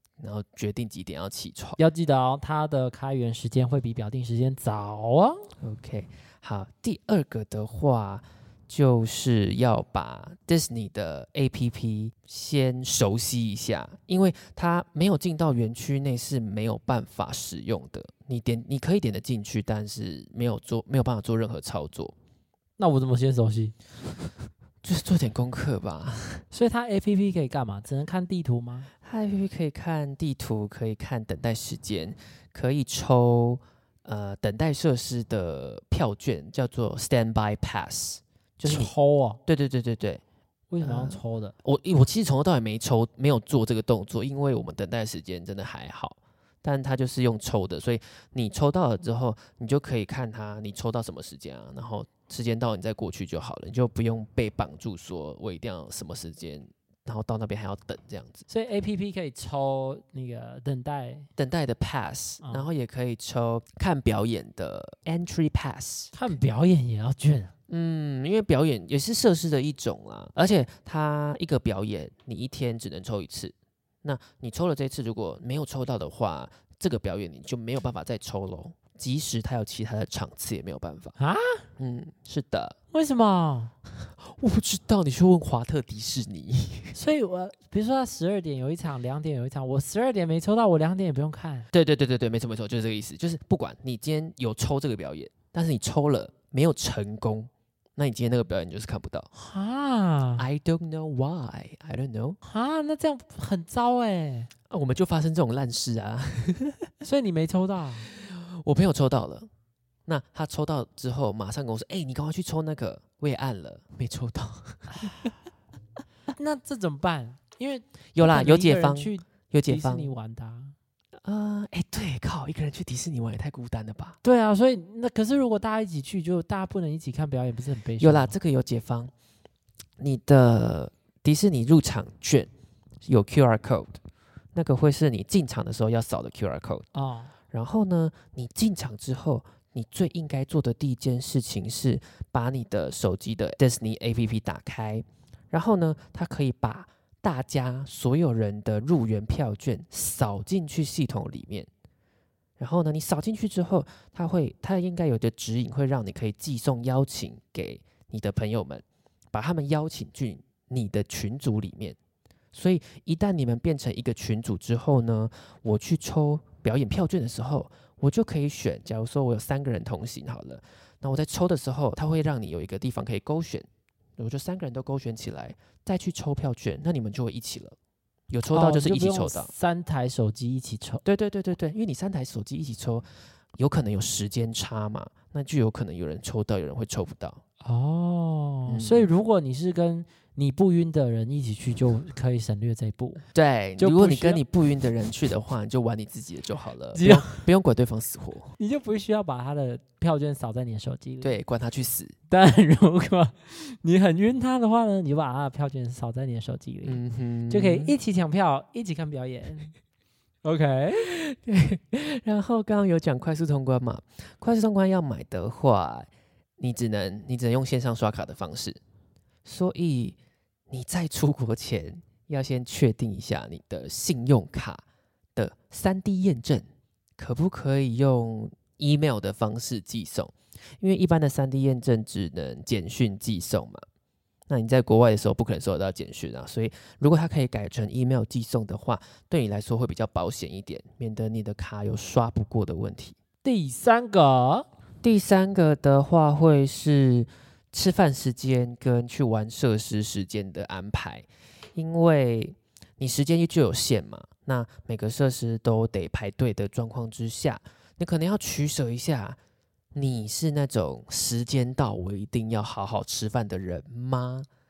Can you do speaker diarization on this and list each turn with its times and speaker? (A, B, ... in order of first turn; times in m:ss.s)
0:00.2-0:01.8 A
0:01.8-0:05.5 B
0:05.6-0:22.1 A
0:22.8-0:23.8 B
0:24.8-0:26.4 A
0:26.5-0:28.9 B
0:29.0-0:38.9 A
0:38.6-0:39.4 B
0:39.4-0:40.2 A
0:40.7-0:41.6 B
0:40.8-0:58.4 A
0:58.5-1:01.3 B
1:01.4-1:06.1 A
1:02.4-1:02.7 B
1:06.1-1:07.5 B
1:07.7-1:21.2 A
1:21.2-1:21.7 B
1:21.8-1:22.8 A
1:22.9-1:23.7 B
1:24.2-1:27.0 A
1:26.9-1:31.7 B
1:31.7-1:39.3 A
1:39.4-1:40.4 B
1:40.4-1:42.4 A
1:42.4-1:44.5 B
1:44.7-1:46.9 A
1:47.0-1:48.1 B
1:48.1-1:49.5 A
1:50.1-1:55.2 A
1:56.3-2:00.8 B
1:58.1-2:00.1 A
2:01.2-2:04.2 A
2:04.2-2:08.4 B
2:08.0-2:09.1 A
2:10.0-2:12.5 A
2:13.0-2:14.0 A
2:14.6-2:16.9 A
2:16.9-2:17.3 B
2:17.5-2:31.7 A
2:32.6-2:42.0 A
2:42.5-2:53.7 A
2:54.2-2:57.8 A
2:58.3-2:59.5 A
2:58.5-3:01.0 B
3:01.0-3:07.4 A
3:07.6-3:13.2 B
3:08.7-3:09.1 A
3:13.3-3:18.6 A
3:13.8-3:14.4 B
3:16.9-3:17.4 B
3:18.6-3:21.4 B
3:21.2-3:22.2 A
3:22.3-3:29.7 B
3:26.8-3:27.9 A
3:30.4-3:31.1 B
3:31.0-3:38.8 A
3:39.4-3:40.2 A
3:40.7-3:44.8 A
3:45.4-3:46.7 A
3:47.2-3:53.8 A
3:54.5-4:03.2 A
4:03.4-4:04.7 B
4:05.0-4:19.4 A
4:20.0-4:24.5 A